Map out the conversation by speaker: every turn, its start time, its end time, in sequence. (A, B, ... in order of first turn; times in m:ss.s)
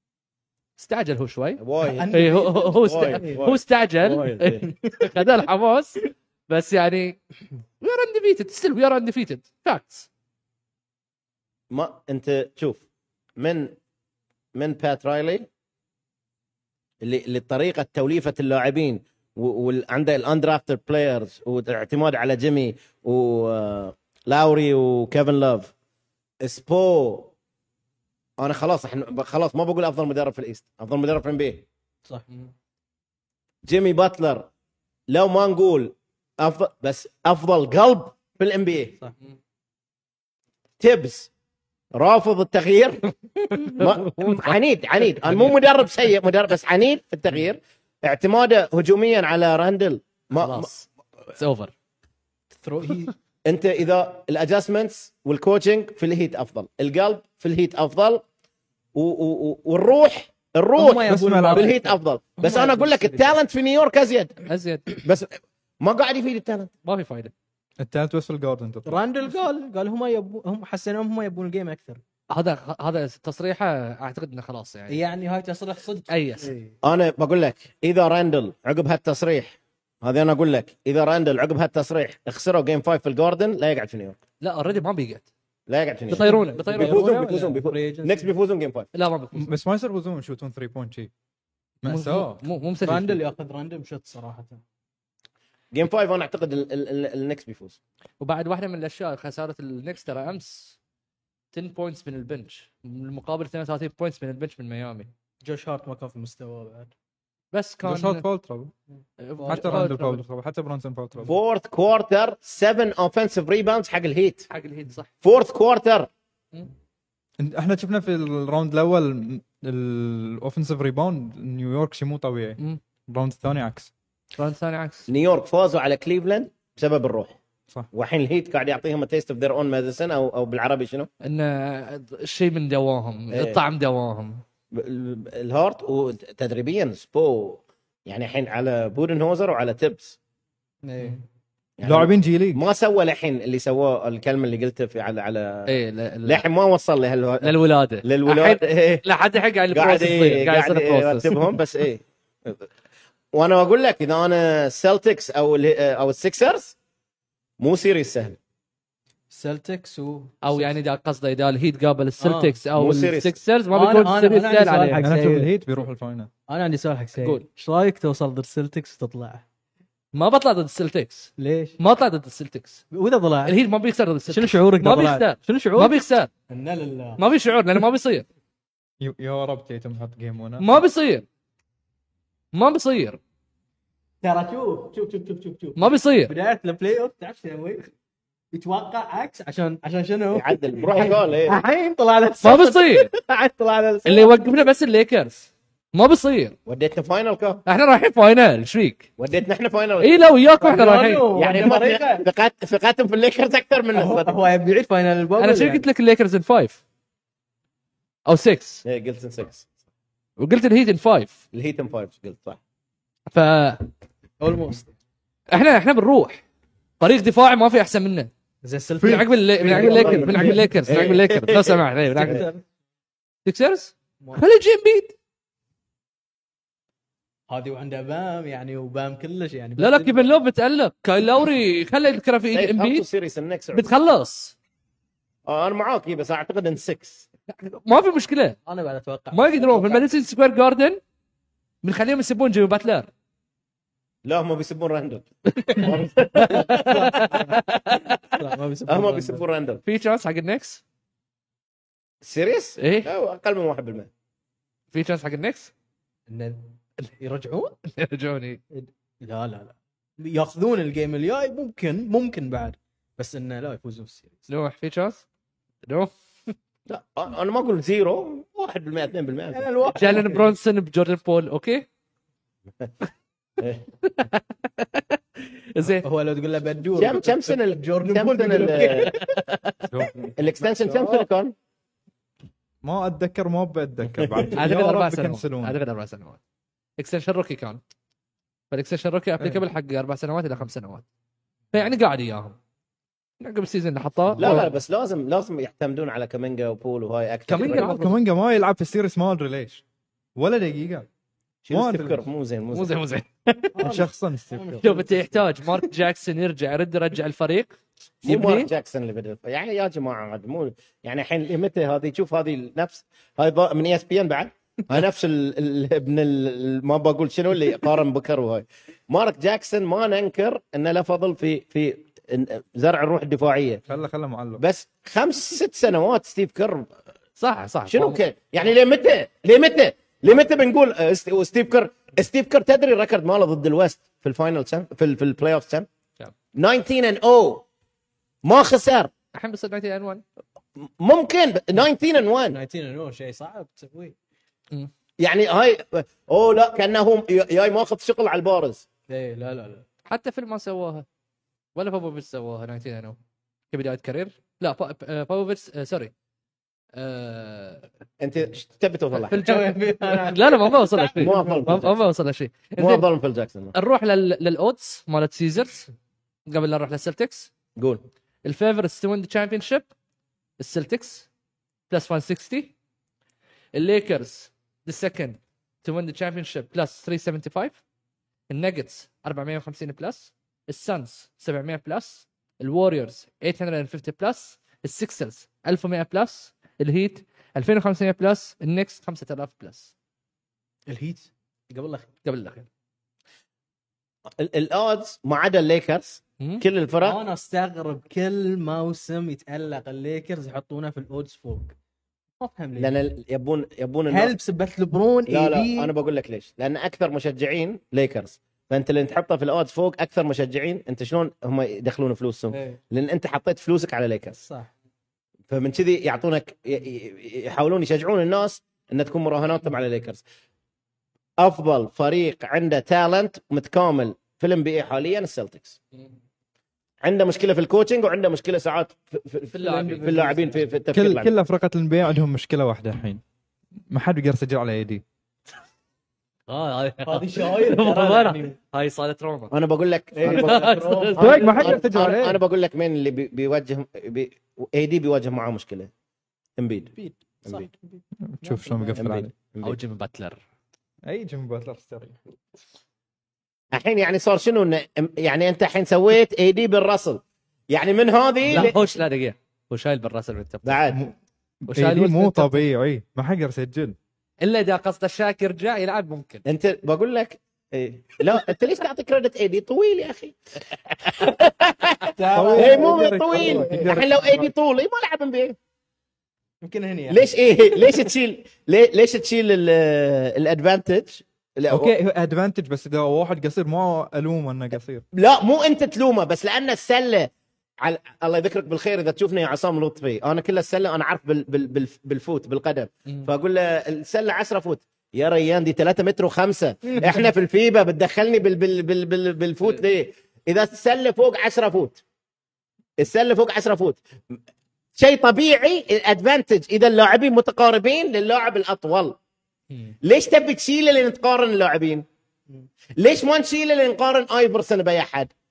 0:00.8-0:07.2 A
0:01.6-0:02.3 B
0:01.8-0:03.4 C
0:02.8-0:04.7 B
0:04.7-0:05.1 C
0:07.8-0:10.1 A
0:11.7-0:12.8 B
0:13.4-0:13.8 B
0:14.6-0:15.5 B
0:17.0-0:25.7 B
0:26.4-0:27.3 B
0:28.4-0:31.6 B
0:33.6-0:34.5 B
0:35.1-0:39.0 B
0:40.8-0:41.3 B
0:41.9-0:43.1 B
0:43.5-0:44.6 A
0:43.6-0:50.7 B
0:45.1-0:45.5 A
0:50.3-0:51.7 A
0:52.5-0:53.1 C
0:53.4-0:58.2 B
0:58.9-1:04.4 B
1:00.8-1:03.4 C
1:01.1-1:01.8 D
1:04.5-1:05.0 A
1:05.0-1:06.7 B
1:06.8-1:07.3 A
1:07.8-1:09.0 D
1:08.8-1:12.0 C
1:12.3-1:15.0 A
1:14.9-1:16.7 C
1:16.1-1:16.5 A
1:16.8-1:24.2 B
1:24.4-1:25.3 A
1:25.7-1:28.9 B
1:26.1-1:27.1 A
1:26.1-1:28.3 C
1:28.9-1:29.5 A
1:29.3-1:31.1 D
1:31.8-1:32.4 D
1:31.9-1:33.2 A
1:32.8-1:34.6 C
1:35.7-1:37.8 B
1:38.2-1:40.8 A
1:41.5-1:45.1 A
1:45.4-1:46.9 C
1:47.5-1:48.2 A
1:47.8-1:48.7 D
1:49.2-1:50.2 A
1:49.4-1:50.0 C
1:49.5-1:51.3 D
1:51.3-1:54.5 B
1:54.5-1:55.1 A
1:55.2-1:56.1 B
1:57.4-2:03.9 D
2:04.4-2:05.1 A
2:05.1-2:07.4 B
2:07.9-2:11.1 B
2:11.2-2:14.4 A
2:13.3-2:13.6 B
2:14.7-2:20.2 B
2:20.8-2:21.2 C
2:21.8-2:25.7 B
2:21.8-2:22.6 D
2:25.7-2:26.4 A
2:26.3-2:29.0 B
2:27.4-2:31.5 A
2:29.7-2:32.7 B
2:33.3-2:36.8 B
2:37.6-2:38.4 B
2:39.3-2:40.8 C
2:40.4-2:45.1 A
2:42.2-2:42.6 C
2:42.8-2:43.4 B
2:43.7-2:45.5 C
2:45.0-2:46.3 D
2:46.5-2:49.4 C
2:47.2-2:47.4 A
2:50.1-2:52.8 A
2:51.4-2:51.8 C
2:52.9-2:53.6 C
2:53.4-2:56.3 A
2:54.3-2:56.0 C
2:56.5-2:57.2 C
2:57.2-2:58.3 A
2:59.0-3:00.8 D
3:00.6-3:01.2 A
3:02.5-3:03.2 A
3:04.2-3:07.9 C
3:05.8-3:06.3 A
3:08.5-3:14.4 C
3:10.3-3:11.6 B
3:12.4-3:13.1 A
3:14.0-3:16.6 A
3:16.7-3:17.6 B
3:17.7-3:19.1 A
3:19.2-3:20.2 B
3:20.0-3:21.3 A
3:20.6-3:22.3 C
3:21.4-3:24.4 B
3:23.9-3:25.8 C
3:25.4-3:26.8 A
3:28.3-3:28.8 A
3:28.8-3:29.7 B
3:30.4-3:31.4 A
3:31.5-3:32.6 B
3:33.3-3:33.9 A
3:34.4-3:34.9 C
3:35.5-3:36.4 A
3:37.0-3:38.3 A
3:38.6-3:41.1 C
3:39.0-3:42.5 A
3:39.7-3:42.4 B
3:42.2-3:42.6 C
3:43.4-3:45.1 A
3:47.5-3:50.3 C
3:49.8-3:53.1 A
3:52.5-3:53.9 B
3:53.7-3:54.6 A
3:55.4-3:57.2 B
3:57.5-3:58.6 A
3:58.7-4:00.1 C
3:59.3-4:01.0 A
4:01.8-4:03.1 A
4:04.2-4:07.1 B
4:05.6-4:08.4 A
4:06.7-4:07.6 C
4:08.4-4:09.4 C
4:08.9-4:09.8 B
4:09.8-4:10.8 A
4:12.2-4:14.1 B
4:12.8-4:13.1 A
4:14.9-4:15.7 A
4:16.3-4:17.8 C
4:17.8-4:18.6 A
4:18.7-4:24.5 C
4:24.5-4:25.2 A
4:25.9-4:26.1 A
4:26.9-4:29.7 B
4:29.5-4:30.5 C
4:29.9-4:31.9 A
4:34.0-4:36.1 A
4:36.0-4:39.4 C
4:37.0-4:39.1 B
4:39.2-4:39.6 A
4:39.9-4:40.3 D
4:40.4-4:41.6 B
4:40.7-4:41.1 C
4:42.8-4:45.8 D
4:44.2-4:44.5 B
4:44.6-4:46.4 A
4:47.0-4:47.8 A
4:48.7-4:51.0 A
4:51.7-4:52.6 A
4:53.4-4:54.7 A
4:54.4-4:58.0 B
4:57.5-4:58.2 A
4:57.6-4:59.8 D
5:00.4-5:01.1 D
5:01.6-5:02.9 B
5:01.7-5:02.2 D
5:02.7-5:03.9 A
5:03.8-5:05.9 C
5:03.8-5:04.8 D
5:04.8-5:08.7 A
5:08.2-5:23.8 B
5:23.9-5:24.6 D
5:24.6-5:26.9 B
5:27.4-5:28.2 A
5:27.9-5:35.9 B
5:36.5-5:37.6 B
5:38.4-5:39.1 B
5:39.3-5:40.2 A
5:40.8-5:42.6 B
5:42.5-5:44.1 C
5:45.2-5:48.8 B
5:49.1-5:49.9 C
5:50.1-5:51.1 A
5:51.8-5:53.2 A
5:53.7-5:56.1 A
5:57.0-5:57.9 A
5:58.2-5:59.4 B
5:59.1-6:03.0 A
5:59.3-6:01.9 C
6:01.2-6:01.9 B
6:02.8-6:03.7 B
6:03.7-6:05.9 A
6:06.5-6:07.5 A
6:07.8-6:08.0 B
6:08.4-6:09.9 A
6:10.6-6:11.3 A
6:11.9-6:12.7 A
6:13.8-6:17.8 A
6:18.5-6:29.9 A
6:30.9-6:32.2 C
6:32.2-6:32.6 A
6:34.4-6:37.2 B
6:36.4-6:36.6 A
6:37.0-6:41.8 C
6:42.4-6:42.9 C
6:42.8-6:44.4 B
6:44.1-6:45.9 C
6:45.3-6:54.4 B
6:52.5-6:52.8 C
6:54.3-6:54.7 C
6:55.5-7:00.2 B
7:01.4-7:05.8 B
7:07.0-7:11.3 B
7:09.5-7:10.5 A
7:09.6-7:10.7 C
7:10.9-7:13.2 D
7:13.9-7:15.0 D
7:16.5-7:19.5 A
7:17.0-7:18.6 C
7:19.5-7:25.9 B
7:20.1-7:22.0 C
7:20.2-7:21.8 A
7:21.2-7:22.4 D
7:26.6-7:26.9 B
7:26.9-7:29.1 C
7:28.3-7:29.3 D
7:29.0-7:29.8 B
7:29.6-7:30.4 A
7:31.0-7:32.2 D
7:33.7-7:38.8 B
7:38.4-7:40.8 A
7:40.6-7:41.0 B
7:40.9-7:44.0 D
7:41.7-7:42.6 A
7:44.4-7:46.4 A
7:46.4-7:50.4 B
7:50.9-7:55.6 B
7:52.1-7:54.0 C
7:52.3-7:54.5 D
7:56.6-7:58.0 C
7:57.1-8:01.9 B
8:01.7-8:05.0 D
8:05.1-8:07.3 B
8:07.8-8:22.0 B
8:16.9-8:17.3 C
8:23.0-8:24.4 B
8:25.0-8:29.2 B
8:30.0-8:32.1 B
8:33.0-8:35.3 B